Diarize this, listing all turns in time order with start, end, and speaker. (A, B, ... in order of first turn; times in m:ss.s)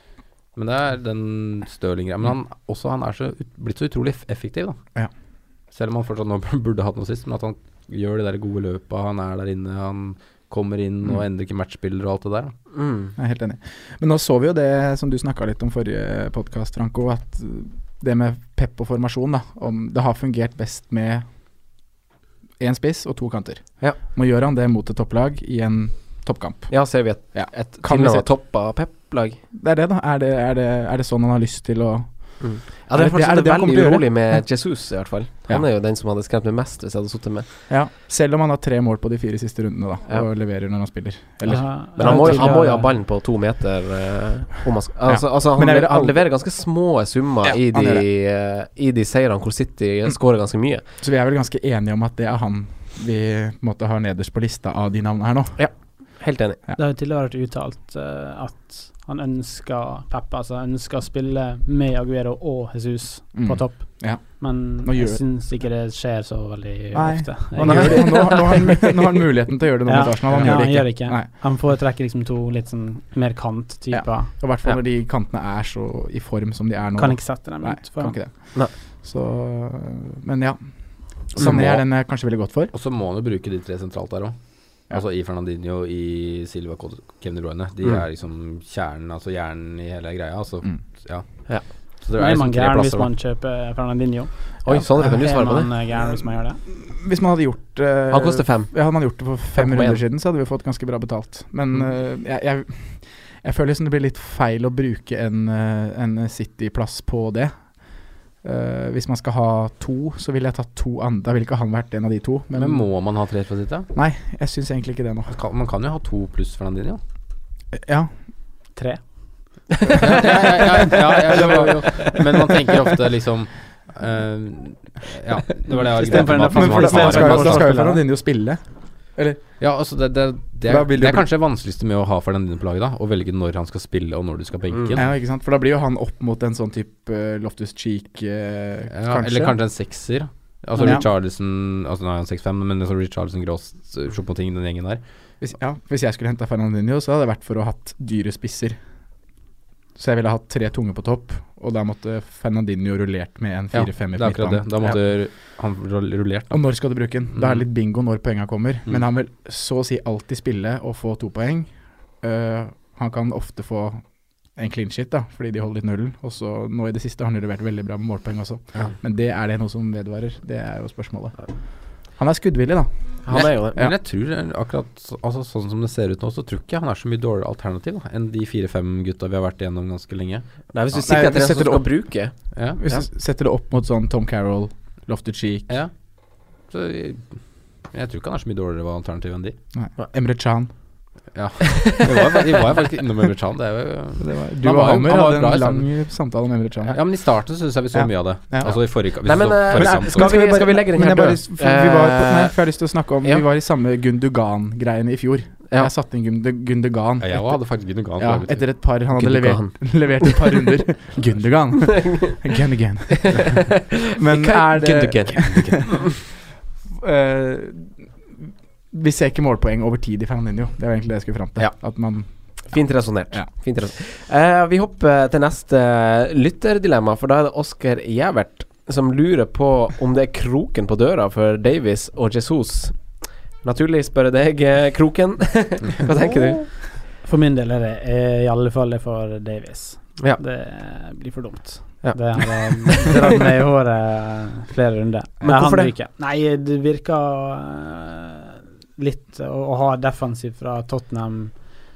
0:00.6-0:04.8 A
0:05.7-0:12.5 A
0:12.7-0:13.1 B
0:13.2-0:21.2 C
0:22.6-0:28.3 C
0:26.7-0:29.4 B
0:29.5-0:34.5 C
0:32.4-0:37.5 B
0:37.7-0:42.8 C
0:41.4-0:42.9 D
0:42.0-0:50.8 B
0:45.1-0:46.2 C
0:47.4-0:48.0 C
0:51.0-0:55.6 C
0:55.6-0:56.6 B
0:56.8-1:08.6 D
1:03.3-1:05.2 C
1:06.9-1:11.3 C
1:07.6-1:08.8 B
1:09.9-1:14.3 D
1:13.9-1:22.7 C
1:17.0-1:18.2 D
1:21.4-1:21.8 A
1:21.4-1:21.6 B
1:22.7-1:33.1 A
1:32.2-1:36.6 D
1:34.6-1:35.7 B
1:34.7-1:35.2 C
1:36.7-1:52.9 C
1:38.1-1:38.9 B
1:39.6-1:40.0 B
1:52.5-1:53.9 A
1:53.9-1:55.3 C
1:55.3-1:57.0 A
1:57.7-1:58.1 C
1:58.8-1:59.2 D
1:59.8-2:02.1 B
2:00.0-2:07.7 A
2:01.3-2:02.0 C
2:05.9-2:08.0 D
2:06.2-2:08.6 C
2:07.1-2:07.3 B
2:09.2-2:09.4 C
2:09.6-2:15.0 A
2:10.7-2:11.3 C
2:14.8-2:15.0 B
2:15.0-2:19.6 C
2:18.9-2:25.0 A
2:20.8-2:21.1 C
2:25.4-2:28.8 C
2:30.0-2:35.0 C
2:33.7-2:36.7 A
2:36.5-2:54.0 C
2:37.4-2:37.7 A
2:53.2-2:53.8 B
2:53.3-3:01.4 A
3:00.7-3:02.4 B
3:01.1-3:01.8 C
3:02.5-3:02.8 A
3:02.8-3:05.7 C
3:06.7-3:07.4 A
3:07.9-3:09.6 A
3:09.7-3:10.7 C
3:11.3-3:15.9 A
3:11.7-3:12.6 B
3:14.2-3:17.0 C
3:16.9-3:20.4 A
3:17.9-3:18.8 C
3:19.2-3:22.5 B
3:19.7-3:27.6 C
3:27.2-3:28.7 A
3:28.2-3:36.3 C
3:29.2-3:30.6 B
3:31.8-3:32.4 B
3:33.1-3:36.0 B
3:36.9-3:42.6 C
3:42.7-3:56.8 B
3:57.2-4:11.7 D
4:02.0-4:03.1 B
4:05.4-4:05.9 B